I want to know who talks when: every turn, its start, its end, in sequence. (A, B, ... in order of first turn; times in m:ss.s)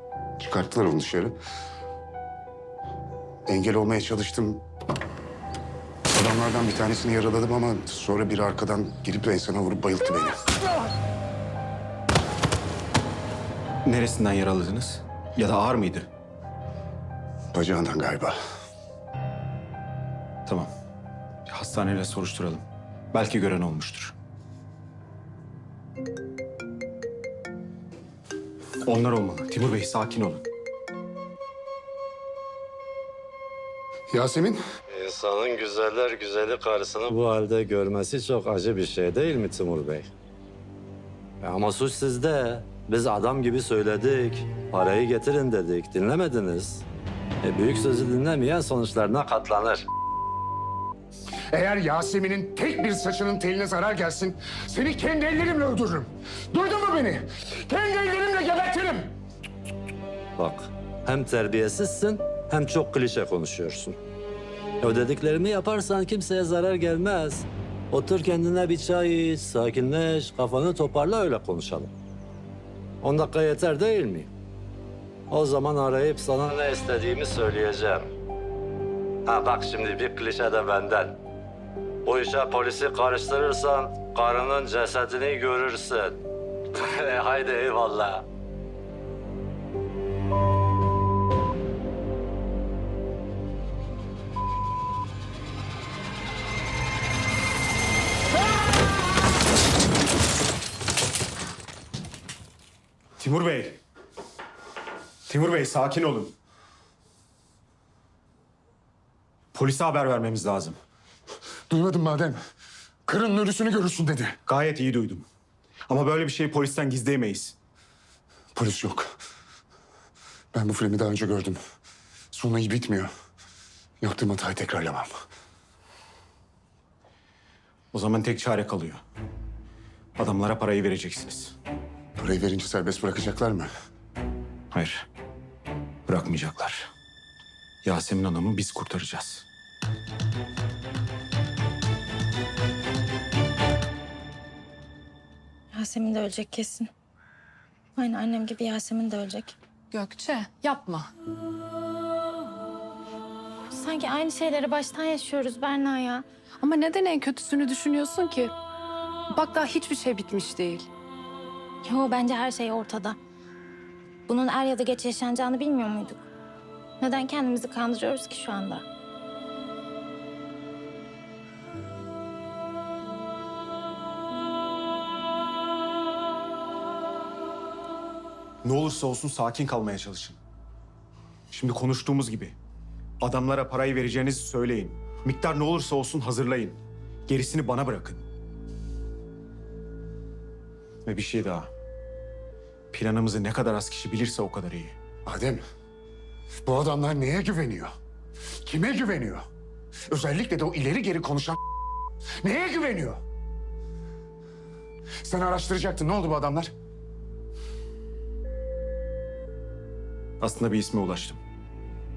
0:00.4-0:01.4 A
0:03.5-0:04.6 A
0:06.1-0:10.4 A
0:13.8-0:16.1 B
0:17.5-0:18.4 A
0:21.5-0:24.1 B
0:28.8-0:30.4 B
0:34.1-0:34.6 A
0:34.9-0:40.1 C
0:41.4-0:46.8 C
0:47.4-0:49.9 C
0:51.5-0:59.2 A
1:00.4-1:04.0 C
1:04.8-1:11.9 C
1:13.0-1:14.3 C
1:15.3-1:18.1 C
1:19.3-1:21.2 C
1:22.0-1:26.2 C
1:26.7-1:28.3 C
1:43.2-1:43.8 B
1:45.3-1:46.4 B
1:49.5-1:50.8 B
1:51.7-1:52.4 A
1:53.1-1:54.4 A
1:54.5-1:55.3 B
1:55.9-1:57.6 B
1:58.6-1:59.1 A
2:00.5-2:01.6 A
2:02.3-2:03.1 A
2:04.0-2:05.1 A
2:07.9-2:09.0 B
2:10.2-2:11.6 B
2:12.2-2:13.7 A
2:14.7-2:15.0 B
2:16.1-2:16.9 B
2:17.8-2:19.4 B
2:25.7-2:26.9 D
2:28.0-2:29.5 D
2:29.9-2:31.1 E
2:33.7-2:36.2 D
2:36.6-2:38.6 E
2:39.3-2:40.9 E
2:41.9-2:43.1 D
2:44.3-2:46.2 D
2:47.0-2:48.8 D
2:58.6-3:00.4 B
3:01.5-3:02.6 B
3:03.2-3:08.2 B
3:11.0-3:11.7 B
3:12.9-3:15.0 B
3:15.3-3:15.6 A
3:16.7-3:17.9 A
3:18.6-3:19.4 A
3:20.1-3:21.6 A
3:22.4-3:23.2 A
3:25.2-3:26.7 A
3:30.4-3:31.4 B